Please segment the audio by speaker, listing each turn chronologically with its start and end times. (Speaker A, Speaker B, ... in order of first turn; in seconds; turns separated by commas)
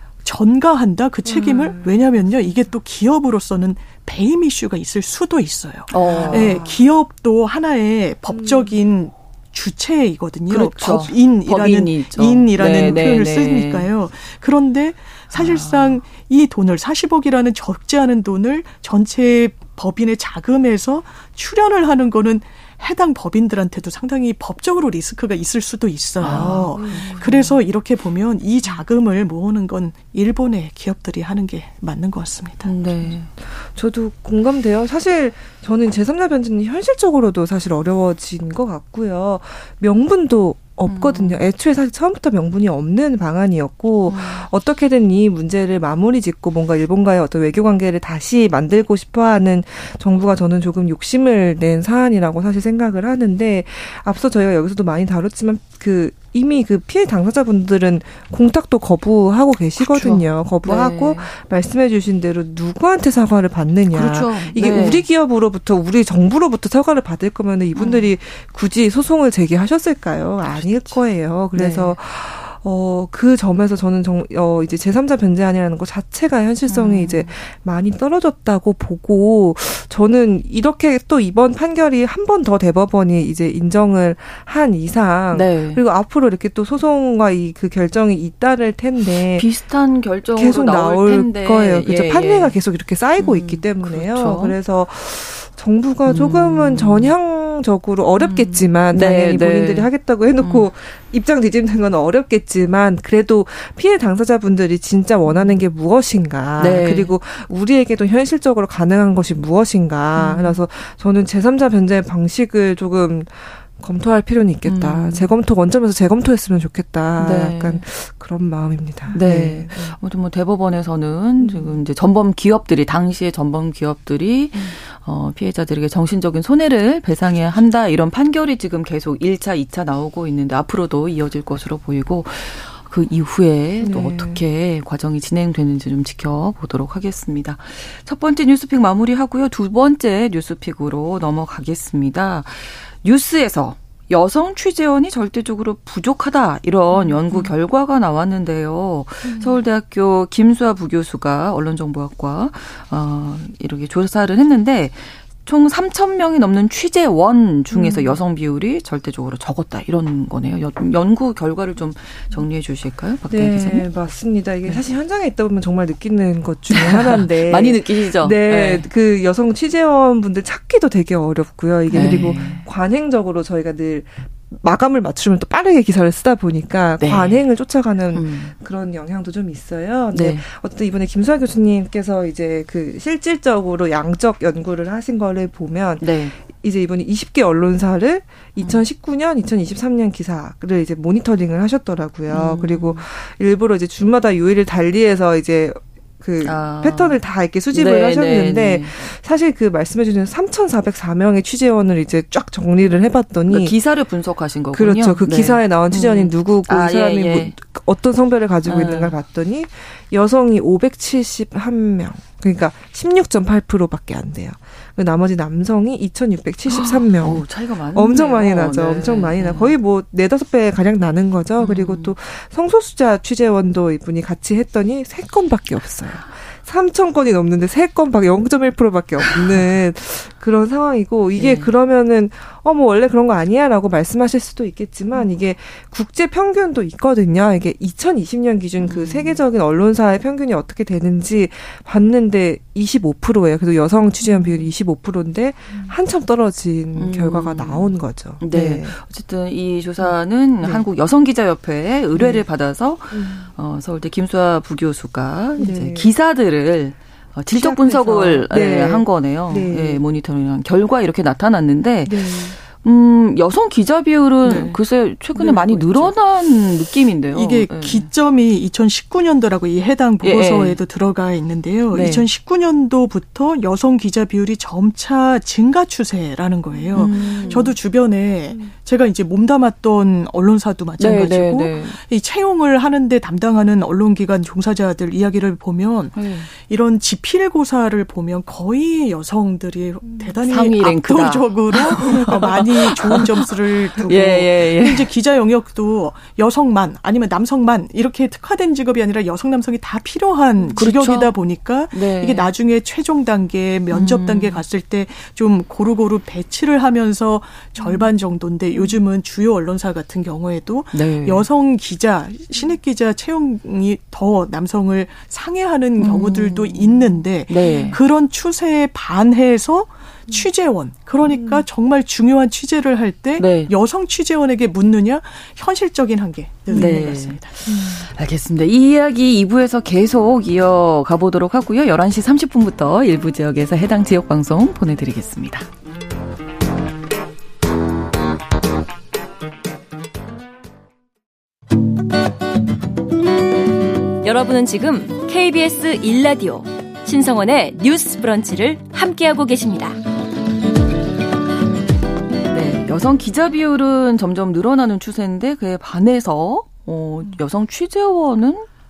Speaker A: 0.2-32.7, Speaker B: 1.2-2.5, Speaker C: 5.9-6.6, Speaker B: 6.0-6.8, Speaker B: 8.3-8.8, Speaker C: 10.5-13.9, Speaker C: 15.3-16.0, Speaker C: 26.2-27.5, Speaker B: 26.2-27.6, Speaker C: 32.6-33.3, Speaker B: 33.4-89.5, Speaker C: 40.9-41.4, Speaker C: 44.1-44.5, Speaker C: 59.9-61.3, Speaker C: 63.9-65.1, Speaker C: 67.8-68.1, Speaker C: 70.5-71.0, Speaker C: 71.5-72.0, Speaker C: 76.7-77.4, Speaker C: 85.3-85.8, Speaker C: 89.3-92.6, Speaker B: 90.3-120.0, Speaker C: 93.2-94.6, Speaker C: 96.0-97.1, Speaker C: 98.2-100.7, Speaker C: 105.3-105.6, Speaker C: 106.6-107.2, Speaker C: 110.2-110.6, Speaker C: 114.7-115.3, Speaker C: 117.2-117.8, Speaker C: 119.1-163.9, Speaker B: 121.4-121.8, Speaker B: 133.8-134.4, Speaker B: 146.9-147.5, Speaker B: 149.2-149.6, Speaker B: 157.7-158.2, Speaker B: 163.3-203.8, Speaker C: 166.7-168.9, Speaker C: 171.9-172.7, Speaker C: 177.0-177.4, Speaker C: 178.1-178.6, Speaker C: 180.1-180.5, Speaker C: 186.0-186.3, Speaker C: 188.6-188.8, Speaker C: 192.3-193.1, Speaker C: 196.4-197.2, Speaker C: 197.7-199.0, Speaker C: 203.5-207.6, Speaker B: 204.7-248.9, Speaker C: 208.7-209.2, Speaker C: 216.7-219.7, Speaker C: 221.6-222.1, Speaker C: 229.3-229.7, Speaker C: 231.3-231.7, Speaker C: 238.8-239.4, Speaker C: 244.3-244.6, Speaker C: 247.0-268.1, Speaker B: 252.2-252.4, Speaker B: 253.1-253.5, Speaker B: 255.6-256.1, Speaker B: 257.5-260.0, Speaker B: 262.1-262.6, Speaker B: 264.5-264.8, Speaker B: 265.4-266.1, Speaker A: 267.3-327.6, Speaker C: 270.2-270.8, Speaker C: 271.9-272.3, Speaker B: 276.7-277.7, Speaker C: 276.9-277.7, Speaker C: 281.0-282.0, Speaker C: 286.1-286.5, Speaker C: 290.4-295.1, Speaker C: 300.8-301.4, Speaker C: 301.9-302.5, Speaker C: 303.9-304.6, Speaker C: 310.9-311.5, Speaker C: 316.0-318.0, Speaker B: 321.3-321.6, Speaker C: 323.4-323.7, Speaker B: 326.7-327.0, Speaker C: 326.7-335.7, Speaker B: 327.7-328.1, Speaker D: 344.2-350.0, Speaker C: 352.5-358.7